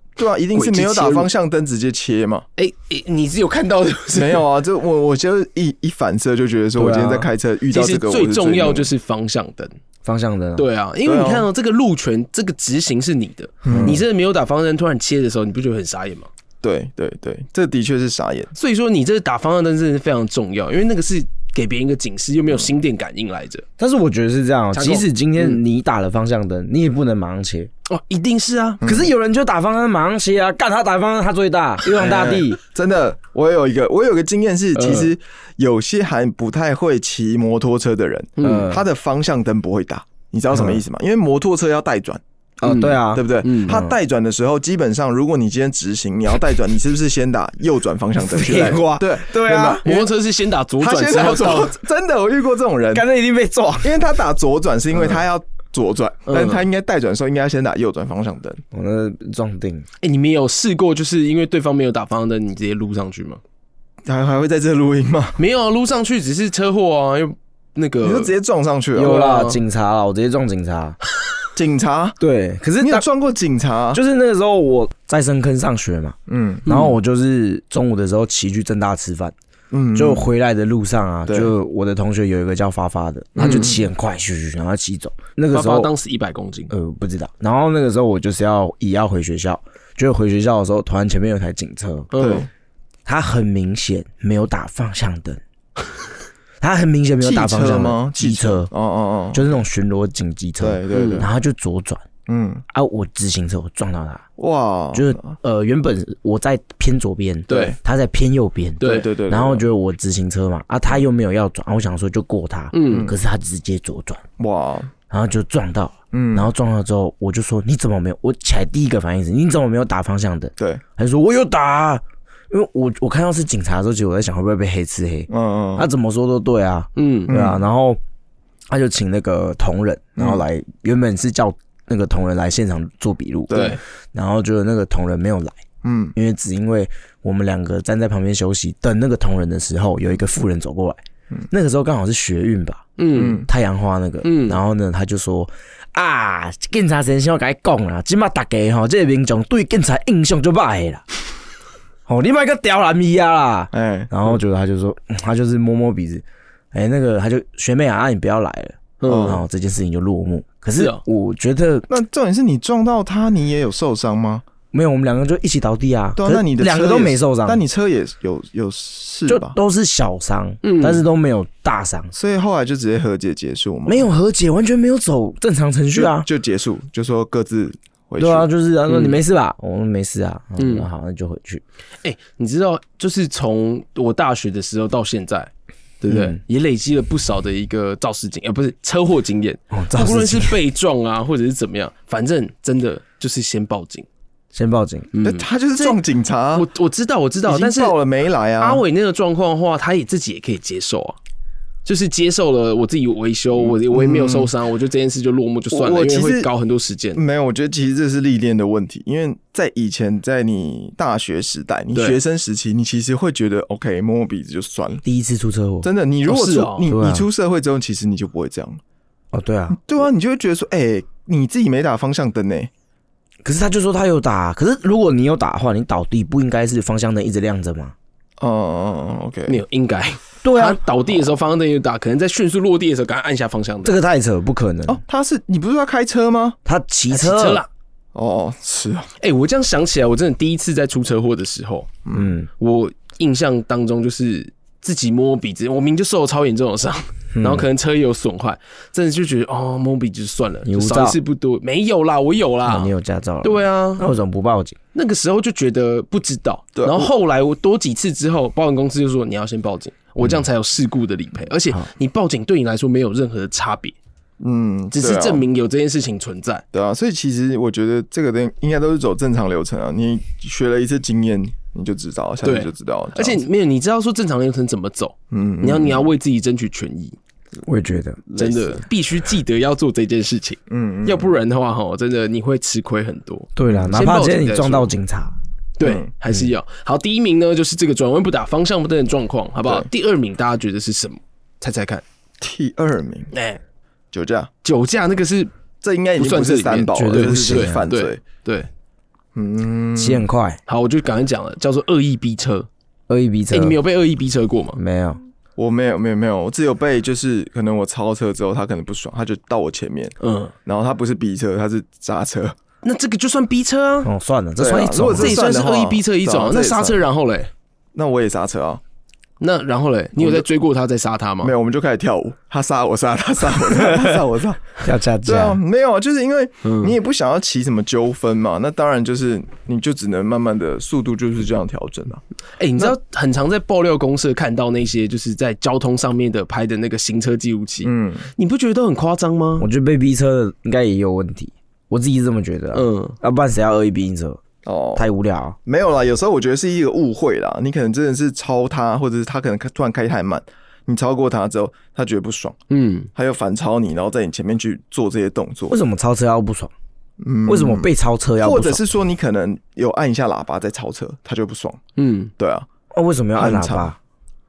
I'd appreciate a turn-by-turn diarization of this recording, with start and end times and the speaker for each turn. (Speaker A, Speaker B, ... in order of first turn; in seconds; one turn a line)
Speaker A: 0.2-2.4
Speaker B: 0.5-1.3
Speaker B: 2.6-4.4
Speaker A: 4.1-8.9
Speaker C: 6.8-7.3
Speaker B: 7.7-9.7
Speaker C: 10.0-10.7
Speaker B: 10.6-16.3
Speaker A: 11.0-11.5
Speaker A: 13.6-14.0
Speaker C: 13.7-14.0
Speaker A: 16.6-18.5
Speaker B: 18.5-23.6
Speaker C: 23.8-27.7
Speaker B: 24.7-25.6
Speaker B: 27.9-28.8
Speaker A: 28.8-29.1
Speaker C: 28.8-32.6
Speaker A: 31.9-42.2
Speaker B: 34.7-35.1
Speaker B: 38.4-38.7
Speaker C: 38.4-38.8
Speaker C: 40.5-40.8
Speaker C: 42.6-44.0
Speaker B: 42.6-43.8
Speaker A: 43.1-50.1
Speaker C: 48.2-49.8
Speaker B: 49.5-51.8
Speaker A: 50.8-53.1
Speaker C: 52.9-54.0
Speaker A: 53.8-58.6
Speaker B: 56.3-56.6
Speaker C: 58.7-59.9
Speaker B: 60.0-63.4
Speaker A: 64.0-65.4
Speaker B: 65.4-68.3
Speaker A: 68.0-69.2
Speaker C: 68.9-71.0
Speaker B: 69.0-69.6
Speaker A: 71.5-72.2
Speaker C: 72.2-73.0
Speaker A: 72.8-74.0
Speaker C: 73.9-79.3
Speaker A: 76.3-76.9
Speaker A: 79.7-80.3
Speaker C: 79.9-85.9
Speaker A: 81.3-81.5
Speaker A: 83.3-83.9
Speaker B: 85.5-86.7
Speaker C: 86.7-92.1
Speaker B: 92.1-92.5
Speaker A: 92.2-92.5
Speaker C: 93.0-95.4
Speaker C: 96.6-98.7
Speaker A: 97.2-99.6
Speaker C: 99.3-102.0
Speaker A: 100.6-101.3
Speaker B: 100.9-101.3
Speaker A: 102.3-102.6
Speaker C: 102.7-104.2
Speaker A: 104.4-105.4
Speaker C: 104.9-114.2
Speaker B: 107.5-107.7
Speaker A: 107.5-107.7
Speaker B: 108.8-109.1
Speaker A: 108.8-109.7
Speaker B: 112.7-113.1
Speaker A: 112.9-113.2
Speaker A: 114.4-114.9
Speaker C: 115.1-128.0
Speaker A: 116.1-116.5
Speaker A: 120.6-120.8
Speaker A: 125.3-125.9
Speaker B: 127.0-127.3
Speaker A: 127.3-127.6
Speaker C: 128.7-135.6
Speaker A: 130.2-130.4
Speaker A: 133.5-133.8
Speaker B: 133.5-133.8
Speaker A: 135.8-136.1
Speaker C: 136.1-151.0
Speaker B: 143.0-143.4
Speaker A: 143.1-143.4
Speaker B: 144.2-144.6
Speaker C: 152.1-161.9
Speaker A: 153.7-154.1
Speaker B: 159.0-159.4
Speaker A: 159.1-159.4
Speaker B: 160.8-161.0
Speaker A: 161.9-164.4
Speaker C: 164.7-167.6
Speaker A: 166.2-169.6
Speaker C: 169.3-172.1
Speaker B: 170.6-171.0
Speaker A: 172.1-174.1
Speaker C: 173.8-176.3
Speaker A: 175.9-178.5
Speaker C: 178.2-181.6
Speaker B: 178.9-179.2
Speaker B: 180.6-180.9
Speaker B: 182.0-194.1
Speaker C: 186.1-186.4
Speaker C: 189.7-190.6
Speaker C: 194.5-195.1
Speaker B: 195.1-196.0
Speaker A: 195.2-196.7
Speaker B: 196.5-198.0
Speaker A: 197.5-198.8
Speaker B: 198.6-201.2
Speaker B: 201.8-207.2
Speaker A: 203.6-204.5
Speaker A: 205.7-206.5
Speaker A: 207.2-215.0
Speaker B: 211.9-212.2
Speaker C: 215.0-215.9
Speaker A: 215.8-218.8
Speaker B: 216.2-216.9
Speaker C: 216.9-217.3
Speaker C: 219.3-219.8
Speaker A: 219.7-222.7
Speaker C: 223.4-227.9
Speaker A: 228.4-229.6
Speaker B: 229.5-233.9
Speaker C: 230.4-230.8
Speaker C: 233.8-235.0
Speaker A: 234.8-236.6
Speaker C: 236.7-237.6
Speaker B: 237.1-237.7
Speaker A: 238.1-239.1
Speaker B: 239.2-241.9
Speaker A: 242.1-242.3
Speaker C: 242.1-242.5
Speaker B: 242.6-254.1
Speaker C: 247.3-247.7
Speaker C: 250.6-251.2
Speaker C: 252.7-254.8
Speaker B: 254.9-263.9
Speaker A: 256.7-257.1
Speaker A: 264.4-265.4
Speaker B: 264.9-266.6
Speaker A: 266.7-273.4
Speaker B: 272.4-277.2
Speaker A: 275.3-276.1
Speaker C: 277.6-278.2
Speaker A: 278.2-278.8
Speaker B: 278.3-284.9
Speaker A: 280.7-281.3
Speaker C: 283.6-285.4
Speaker A: 283.7-284.0
Speaker B: 285.8-292.0
Speaker A: 285.8-286.1
Speaker A: 292.4-293.3
Speaker B: 293.3-293.6
Speaker A: 294.1-294.5
Speaker B: 294.6-295.5
Speaker A: 295.8-298.2
Speaker B: 296.2-298.7
Speaker C: 296.9-297.8
Speaker A: 299.3-300.2
Speaker C: 300.0-300.6
Speaker B: 300.7-302.7
Speaker C: 303.1-303.8
Speaker B: 303.5-304.8
Speaker C: 304.8-305.2
Speaker A: 305.6-312.5
Speaker B: 310.2-310.5
Speaker B: 312.8-314.1
Speaker C: 314.0-315.4
Speaker A: 314.6-317.0
Speaker B: 315.1-317.5
Speaker A: 317.9-318.8
Speaker B: 319.4-321.5
Speaker A: 320.2-320.4
Speaker A: 321.4-332.2
Speaker C: 324.8-325.6
Speaker B: 326.6-326.9
Speaker B: 332.6-339.7
Speaker A: 337.8-338.3
Speaker C: 339.6-344.4
Speaker B: 342.7-343.2
Speaker A: 344.6-345.1
Speaker C: 344.9-345.6
Speaker A: 345.6-352.6
Speaker B: 352.7-353.1
Speaker A: 353.1-355.8
Speaker C: 355.7-356.7
Speaker A: 357.2-361.8
Speaker C: 357.4-358.8
Speaker B: 362.0-362.3
Speaker A: 362.4-362.7
Speaker C: 362.9-364.0
Speaker A: 363.4-363.9